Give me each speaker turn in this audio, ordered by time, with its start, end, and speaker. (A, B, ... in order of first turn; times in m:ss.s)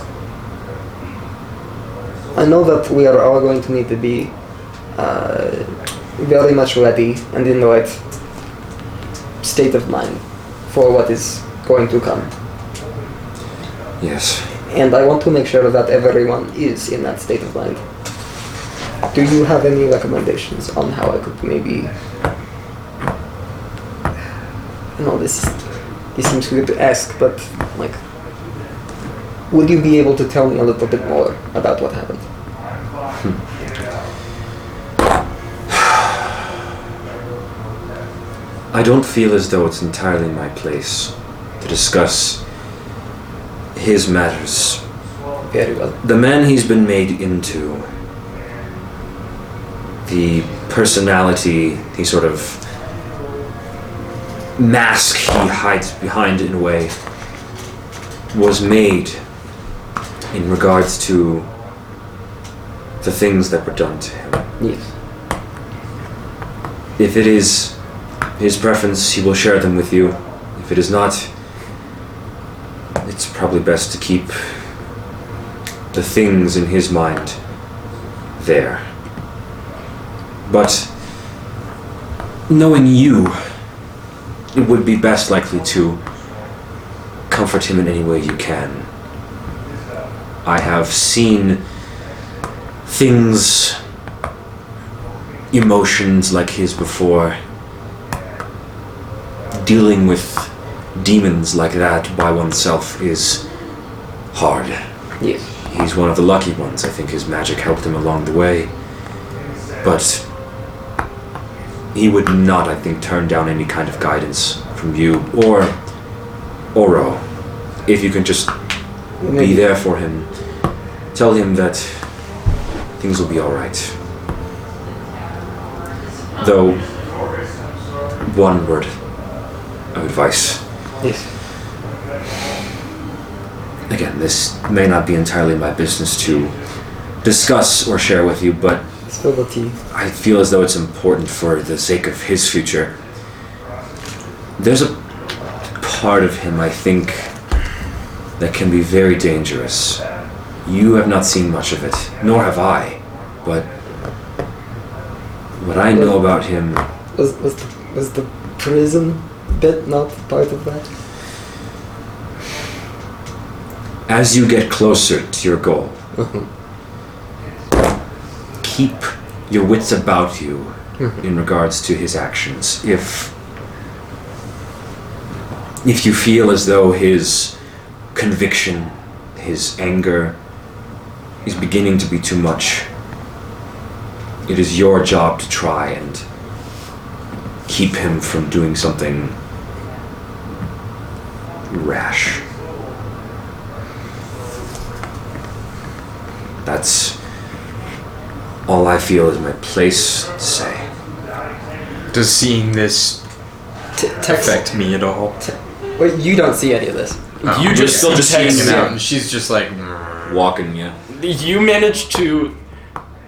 0:02.3-0:04.3 A
0:05.0-0:08.0 A
0:09.4-0:12.3 A
0:14.0-0:14.5 B
0:14.7-0:17.8 A
0:19.1-0:21.9 A
0:25.0-0:25.6 A
0:26.1-0:28.0 A
0:29.5-0:32.2 A
0:38.7-0:42.4 B
0:43.8-0:44.8 B
0:45.5-0:46.0 A
0:46.0-0:47.9 B
0:50.0-0:52.6 B
0:54.6-0:57.0 B
0:58.3-0:59.2 B
1:00.3-1:01.5 B
1:03.0-1:04.5 B
1:04.6-1:04.9 A
1:07.0-1:07.8 B
1:08.4-1:11.3 B
1:13.0-1:14.6 B
1:15.9-1:17.4 B
1:18.4-1:18.9 B
1:20.4-1:20.9 B
1:22.5-1:23.5 B
1:24.5-1:26.0 B
1:27.3-1:28.9 B
1:30.4-1:31.6 B
1:32.9-1:33.8 B
1:35.5-1:37.4 B
1:39.5-1:43.4 B
1:44.3-1:44.8 B
1:45.2-1:45.5 A
1:45.6-1:48.7 B
1:49.8-1:50.2 B
1:51.9-1:55.8 B
1:56.7-1:57.2 B
1:57.8-1:58.6 B
1:59.2-1:59.7 A
1:59.3-2:00.3 B
2:01.1-2:02.1 B
2:03.0-2:04.0 B
2:06.4-2:06.9 B
2:08.2-2:09.0 B
2:09.9-2:10.6 B
2:11.0-2:11.3 A
2:13.9-2:16.6 B
2:17.2-2:18.8 B
2:19.1-2:19.8 A
2:19.9-2:23.0 B
2:24.6-2:25.0 B
2:25.7-2:27.3 B
2:28.4-2:30.0 B
2:30.6-2:33.7 B
2:35.6-2:36.9 B
2:35.9-2:36.2 A
2:37.1-2:40.9 A
2:44.1-2:46.0 B
2:46.1-2:46.5 A
2:48.6-2:53.3 B
2:55.8-2:57.6 B
2:58.1-3:00.4 B
3:01.4-3:02.9 B
3:04.5-3:06.2 B
3:07.7-3:09.4 B
3:11.7-3:12.4 B
3:16.6-3:17.2 B
3:18.7-3:20.9 B
3:22.1-3:23.2 C
3:24.0-3:24.6 A
3:24.2-3:25.4 C
3:25.4-3:27.4 A
3:27.4-3:30.4 C
3:27.5-3:29.0 D
3:27.7-3:29.0 B
3:30.3-3:31.0 B
3:31.1-3:32.6 D